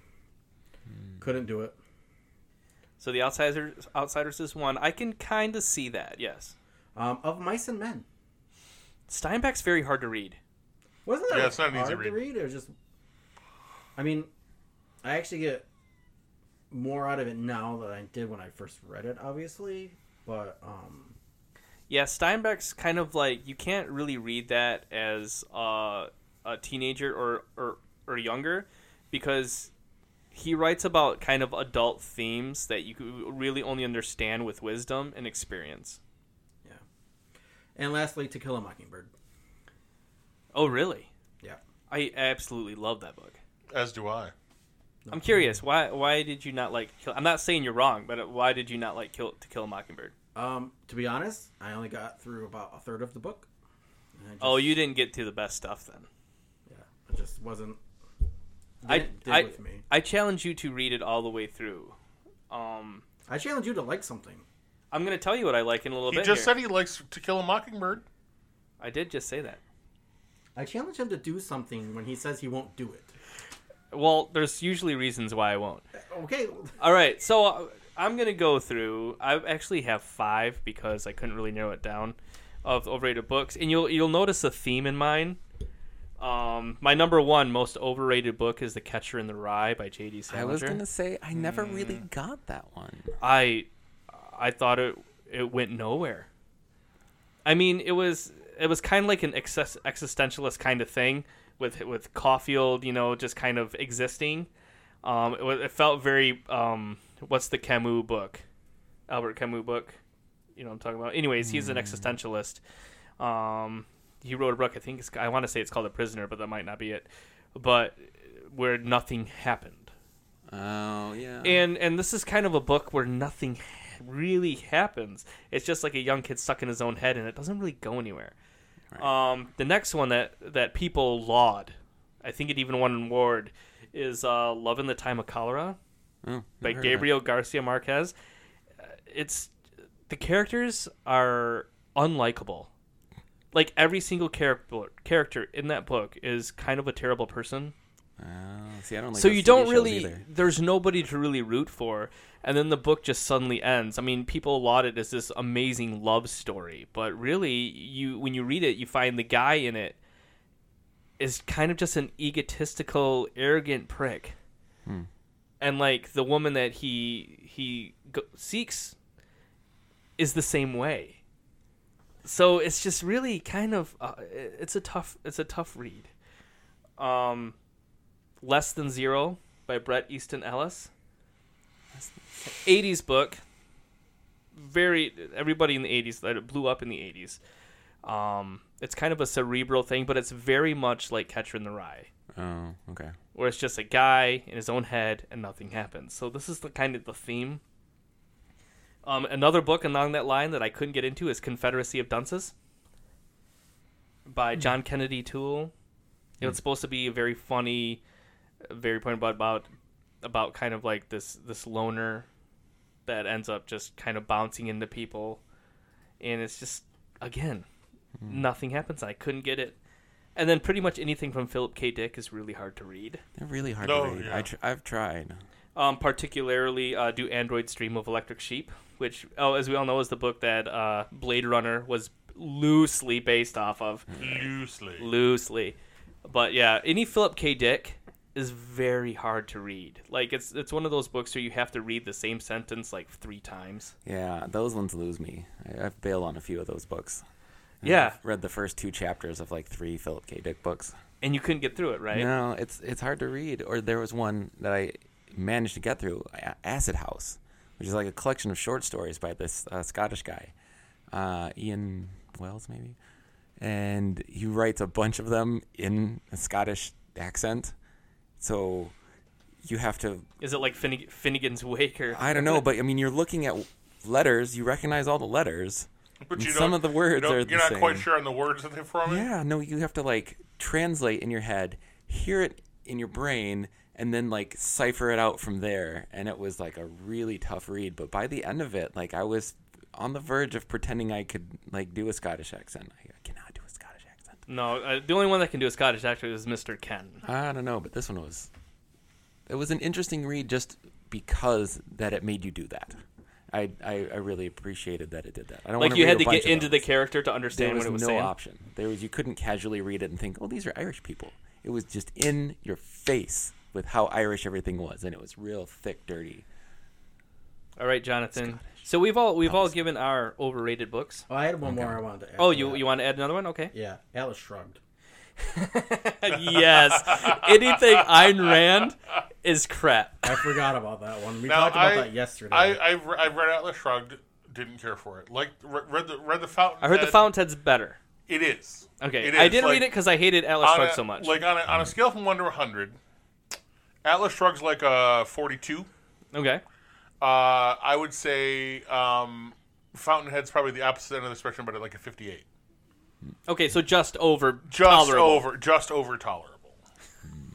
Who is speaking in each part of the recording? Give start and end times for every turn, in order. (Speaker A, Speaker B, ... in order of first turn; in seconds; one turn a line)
Speaker A: 1.2-1.8
Speaker B: 3.0-6.5
Speaker A: 6.9-8.1
Speaker B: 9.1-10.4
Speaker A: 11.0-12.7
Speaker C: 11.3-12.2
Speaker A: 13.9-14.3
Speaker A: 15.0-15.6
Speaker A: 16.7-21.1
Speaker B: 21.9-29.7
Speaker B: 30.3-36.0
Speaker A: 37.8-39.1
Speaker B: 40.5-41.1
Speaker B: 41.9-43.4
Speaker C: 43.7-44.3
Speaker A: 45.0-45.3
Speaker B: 45.1-50.1
Speaker A: 50.3-53.5
Speaker A: 54.2-54.8
Speaker B: 54.4-56.1
Speaker A: 56.7-57.8
Speaker A: 58.8-59.8
Speaker B: 58.9-61.9
Speaker B: 62.5-63.0
Speaker A: 63.3-64.4
Speaker B: 64.9-66.5
Speaker C: 66.1-68.0
Speaker B: 68.8-69.6
Speaker A: 70.5-73.1
Speaker B: 73.9-75.8
Speaker A: 76.0-76.7
Speaker B: 76.8-85.4
Speaker B: 86.2-90.8
Speaker D: 90.3-93.1
Speaker B: 93.2-96.3
Speaker B: 97.4-104.5
Speaker B: 105.0-108.4
Speaker B: 109.1-110.0
Speaker B: 110.5-112.6
Speaker D: 111.4-112.1
Speaker B: 113.2-119.9
Speaker D: 120.5-121.6
Speaker B: 121.4-128.3
Speaker B: 129.0-135.8
Speaker D: 136.2-137.1
Speaker B: 136.6-138.1
Speaker B: 138.8-139.5
Speaker B: 140.1-142.7
Speaker B: 143.5-147.7
Speaker D: 148.2-150.2
Speaker B: 149.1-160.0
Speaker B: 161.2-164.3
Speaker B: 165.6-168.9
Speaker B: 170.2-171.2
Speaker B: 172.2-176.1
Speaker B: 177.0-177.5
Speaker B: 178.4-180.9
Speaker B: 182.5-183.4
Speaker B: 184.5-187.4
Speaker B: 188.0-192.1
Speaker D: 192.3-193.1
Speaker B: 193.3-197.6
Speaker B: 199.0-202.5
Speaker B: 204.3-205.7
Speaker B: 206.4-208.0
Speaker B: 208.6-209.7
Speaker B: 210.2-212.2
Speaker B: 213.1-215.4
Speaker B: 216.2-217.7
Speaker B: 218.2-219.8
Speaker B: 220.3-223.2
Speaker D: 223.3-225.4
Speaker C: 223.8-224.5
Speaker B: 225.7-234.4
Speaker C: 234.2-235.1
Speaker B: 235.0-243.9
Speaker D: 244.0-247.2
Speaker D: 247.8-250.9
Speaker B: 247.8-248.2
Speaker B: 251.2-252.3
Speaker D: 252.1-260.5
Speaker D: 261.1-263.0
Speaker D: 263.6-267.7
Speaker D: 268.4-268.9
Speaker D: 269.6-270.3
Speaker B: 270.4-272.6
Speaker D: 272.1-278.1
Speaker C: 276.2-279.3
Speaker D: 279.0-294.4
Speaker B: 294.5-297.2
Speaker D: 297.2-298.5
Speaker D: 299.5-303.0
Speaker D: 303.5-306.9
Speaker B: 305.8-308.3
Speaker D: 307.5-316.4
Speaker B: 317.8-321.2
Speaker D: 318.3-318.9
Speaker D: 319.4-319.8
Speaker A: 321.3-322.9
Speaker D: 321.6-322.0
Speaker B: 322.4-323.7
Speaker A: 323.7-324.8
Speaker B: 325.4-330.3
Speaker C: 326.5-328.6
Speaker A: 330.2-332.8
Speaker C: 331.4-337.3
Speaker B: 336.8-338.0
Speaker C: 338.3-339.9
Speaker B: 339.0-341.4
Speaker C: 340.6-343.0
Speaker C: 344.0-345.9
Speaker B: 346.3-346.6
Speaker C: 347.2-352.4
Speaker B: 353.5-355.4
Speaker C: 354.7-356.8